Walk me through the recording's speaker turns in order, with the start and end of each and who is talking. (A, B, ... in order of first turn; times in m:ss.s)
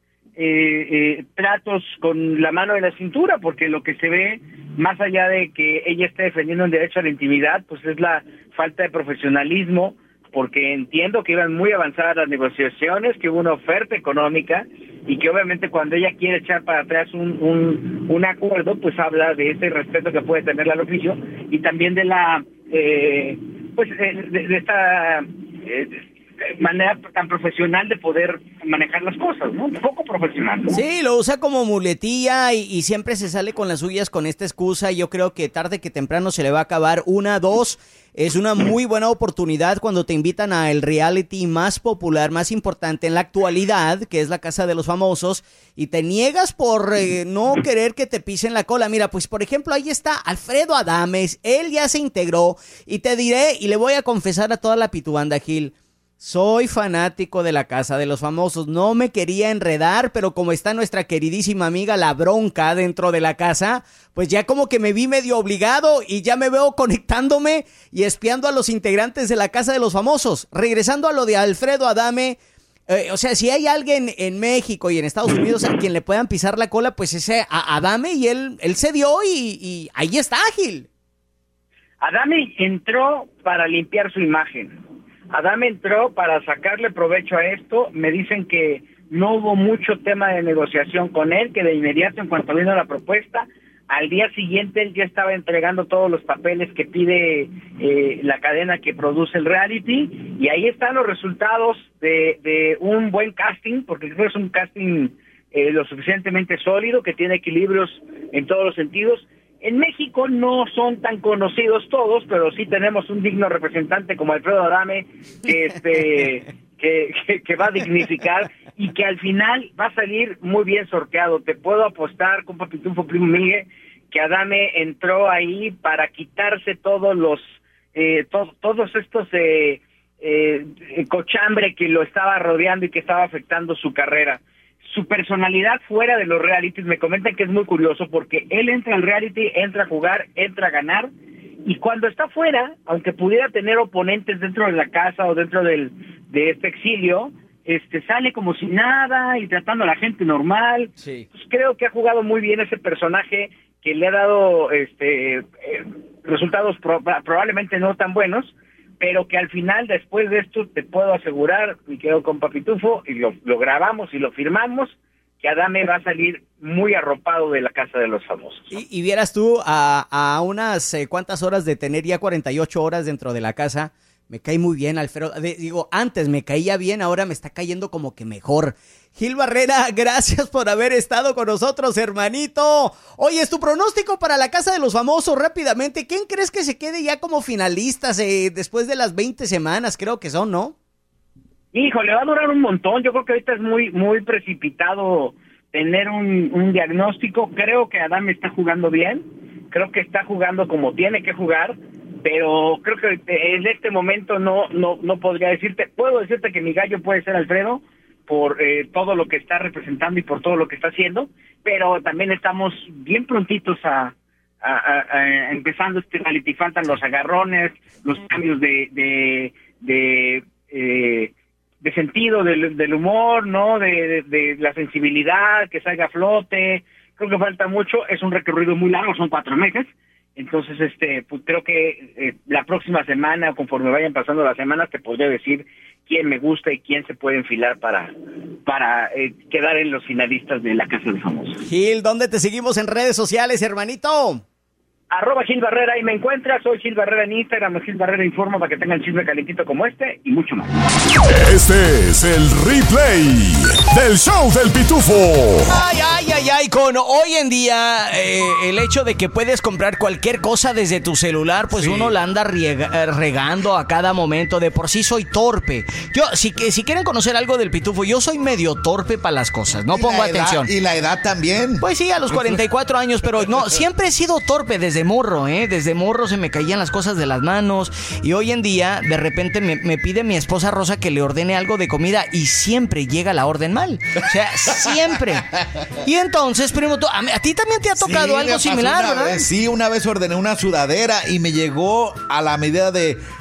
0:00.4-0:30.8 A
0:30.7-1:20.9 B
1:22.0-1:24.8 A
1:25.3-2:21.1 A
2:21.6-2:48.7 A
2:31.0-2:31.2 B
2:48.7-3:10.7 B
3:11.7-3:58.1 A
3:58.6-4:01.6 A
4:01.6-4:04.4 B
4:05.1-4:10.7 A
4:11.2-4:15.7 C
4:15.7-4:30.7 B
4:21.7-4:22.1 D
4:29.9-4:31.8 D
4:31.8-4:45.5 B
4:46.0-4:49.4 B
4:48.0-4:53.2 D